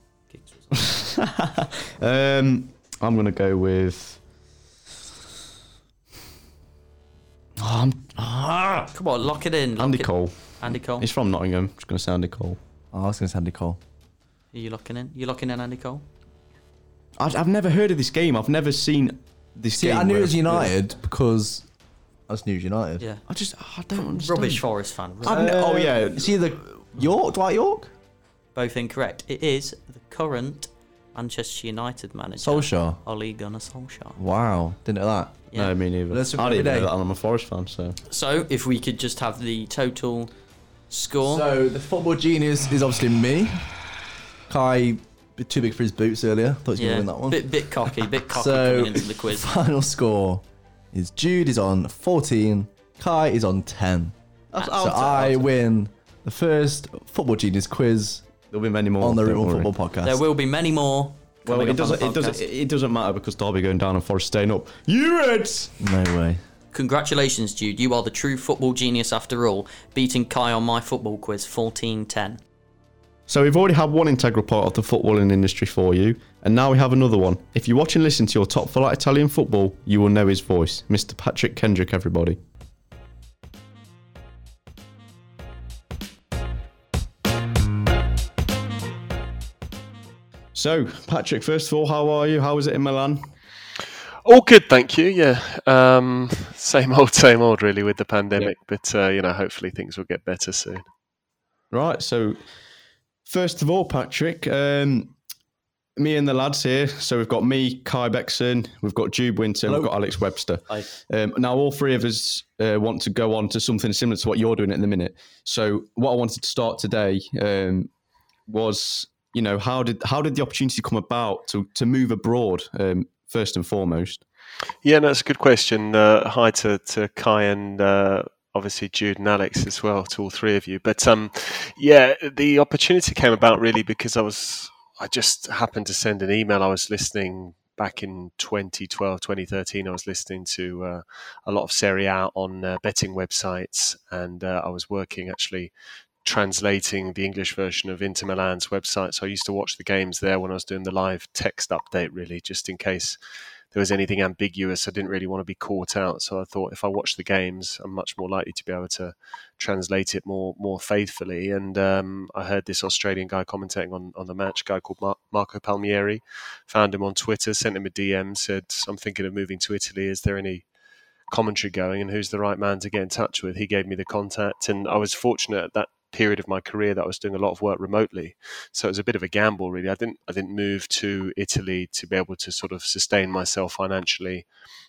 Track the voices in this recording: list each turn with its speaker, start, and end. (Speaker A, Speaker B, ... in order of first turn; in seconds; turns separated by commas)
Speaker A: 0.3-1.1, Speaker B: 0.8-4.2, Speaker B: 7.6-8.9, Speaker A: 8.9-11.1, Speaker B: 9.8-12.6, Speaker C: 12.9-13.8, Speaker A: 14.5-16.1, Speaker B: 17.2-20.7, Speaker C: 19.7-21.7, Speaker C: 22.3-23.0, Speaker B: 23.3-24.6, Speaker A: 24.0-25.4, Speaker B: 25.2-26.4, Speaker C: 25.2-27.9, Speaker A: 28.6-34.2, Speaker C: 32.4-33.0, Speaker C: 34.2-35.4, Speaker B: 35.5-38.0, Speaker C: 36.1-36.9, Speaker A: 38.1-40.3, Speaker A: 40.9-41.5, Speaker C: 41.2-43.7, Speaker C: 44.5-54.1, Speaker A: 46.8-49.5, Speaker B: 54.5-55.5, Speaker C: 54.7-58.3, Speaker B: 58.5-59.7, Speaker C: 59.0-60.2, Speaker A: 60.0-62.4, Speaker B: 61.5-65.8, Speaker C: 65.8-66.4, Speaker A: 66.7-72.4, Speaker B: 73.3-82.4, Speaker B: 90.5-93.3, Speaker D: 94.2-100.8, Speaker B: 101.7-102.4, Speaker B: 103.3-105.2, Speaker B: 106.0-117.9, Speaker C: 109.7-109.9, Speaker B: 118.5-124.2, Speaker D: 124.8-145.7, Speaker D: 146.2-153.2, Speaker D: 153.7-170.7, Speaker D: 171.3-184.5